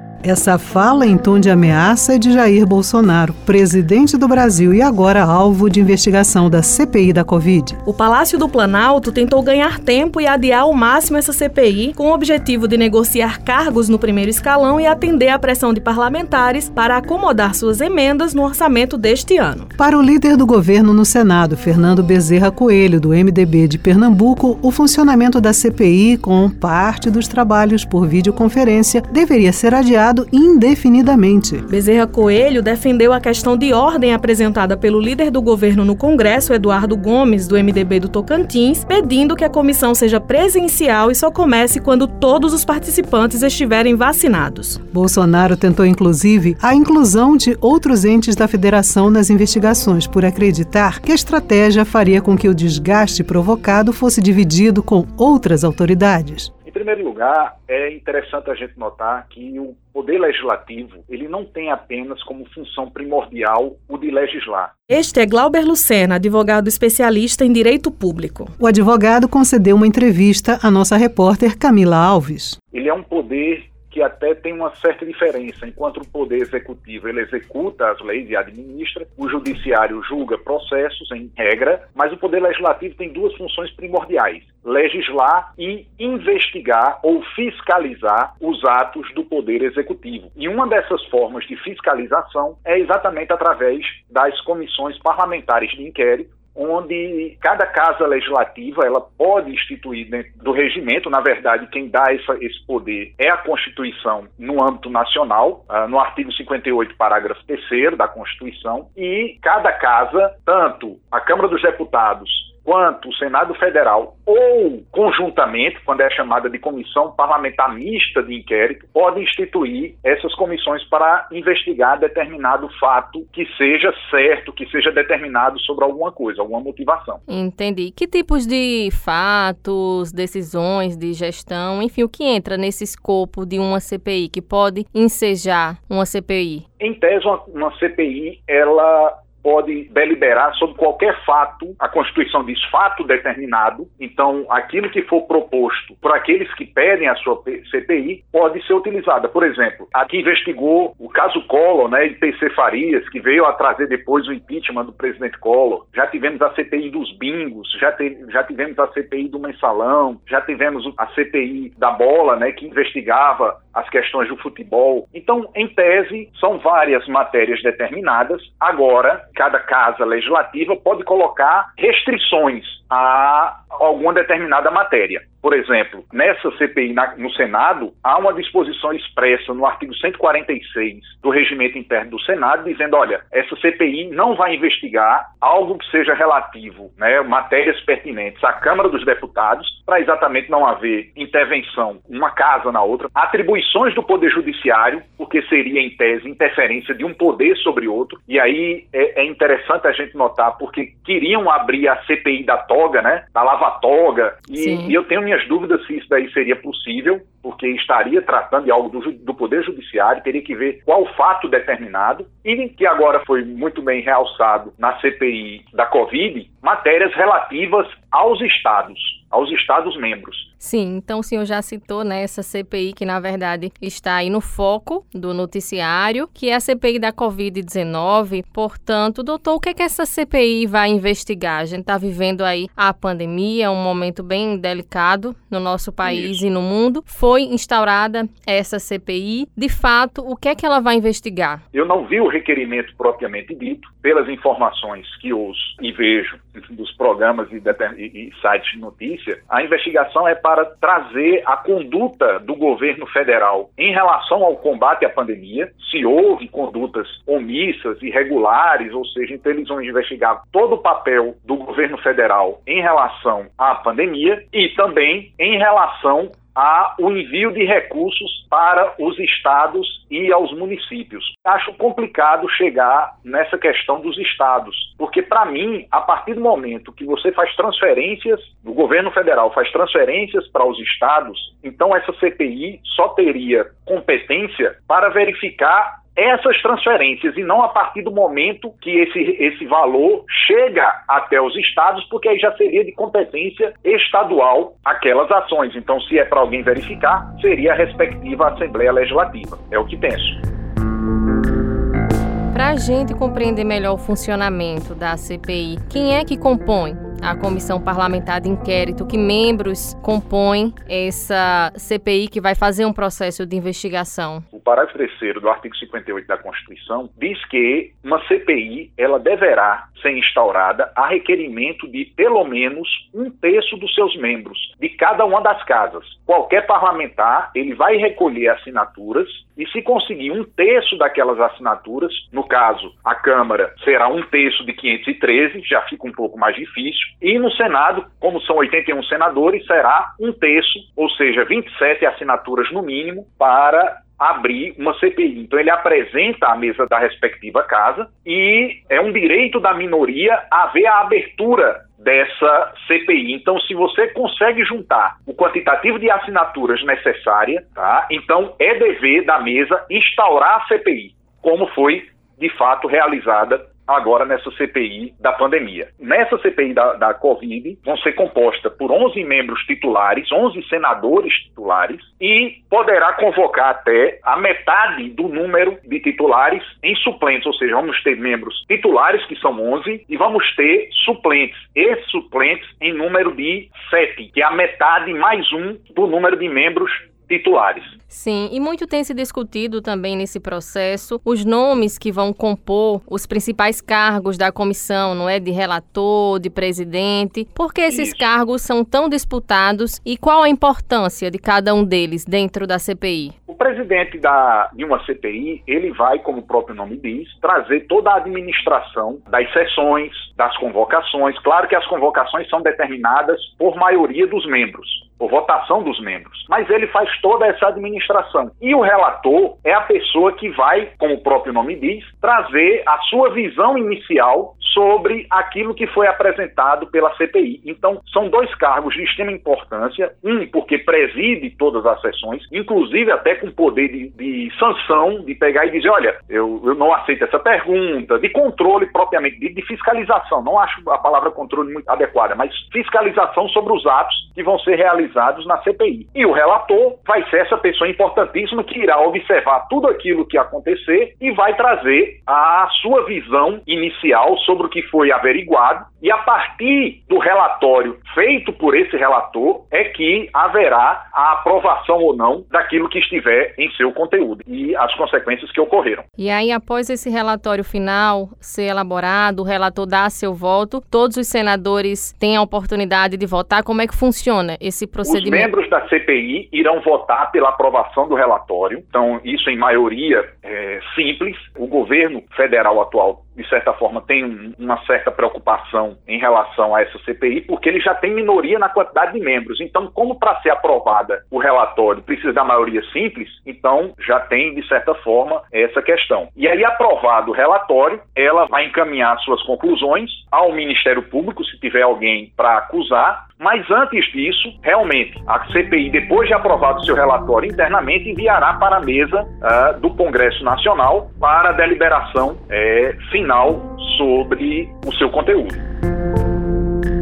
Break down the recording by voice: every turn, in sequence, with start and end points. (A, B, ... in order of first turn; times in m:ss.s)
0:00.2-0:07.8 A
0:07.8-0:19.7 B
0:19.8-0:31.6 A
0:31.7-0:44.8 B
0:44.9-0:56.5 A
0:56.7-1:04.7 C
1:04.9-1:08.5 B
1:08.6-1:12.6 A
1:12.7-2:07.2 C
2:07.3-2:16.6 D
2:16.8-3:40.5 C
3:24.6-3:24.9 D
3:40.6-4:01.6 D
3:56.0-3:56.4 C
4:01.7-5:00.4 C
5:02.5-5:14.4 D
5:14.5-6:28.0 C
6:28.1-6:43.3 D
6:37.9-6:38.2 C
6:43.5-7:46.0 C
7:46.2-7:55.5 D
7:55.1-8:35.6 C